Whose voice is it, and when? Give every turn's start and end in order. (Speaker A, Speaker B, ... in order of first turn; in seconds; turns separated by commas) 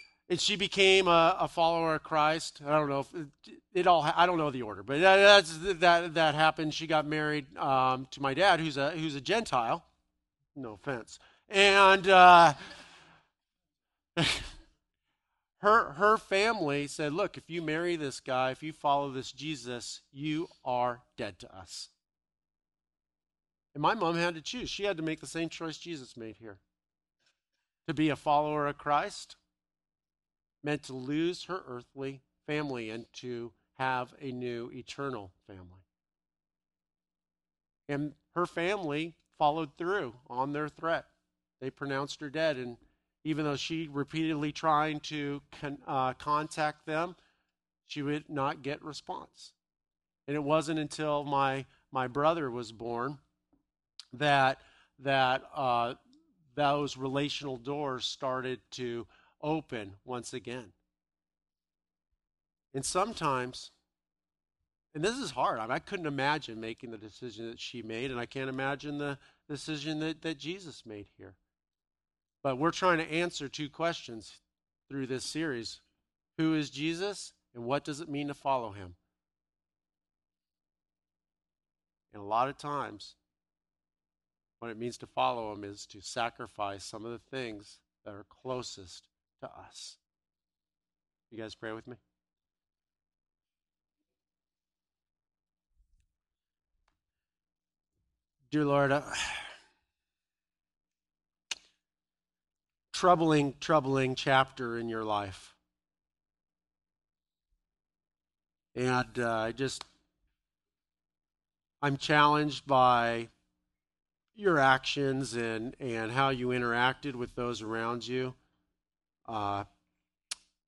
Speaker A: 0.3-9.8, Speaker A: 10.6-12.6, Speaker A: 14.2-14.5, Speaker A: 15.6-21.9, Speaker A: 23.7-26.6, Speaker A: 27.9-29.4, Speaker A: 30.6-35.9, Speaker A: 37.9-41.1, Speaker A: 41.6-47.2, Speaker A: 47.9-49.5, Speaker A: 50.3-53.2, Speaker A: 54.1-56.0, Speaker A: 56.5-60.7, Speaker A: 62.7-63.7, Speaker A: 64.9-71.4, Speaker A: 72.4-75.8, Speaker A: 76.4-79.0, Speaker A: 82.1-83.2, Speaker A: 84.6-90.0, Speaker A: 91.3-92.0, Speaker A: 98.5-99.5, Speaker A: 102.9-105.6, Speaker A: 108.8-109.8, Speaker A: 111.8-113.3, Speaker A: 114.3-118.4, Speaker A: 119.3-119.7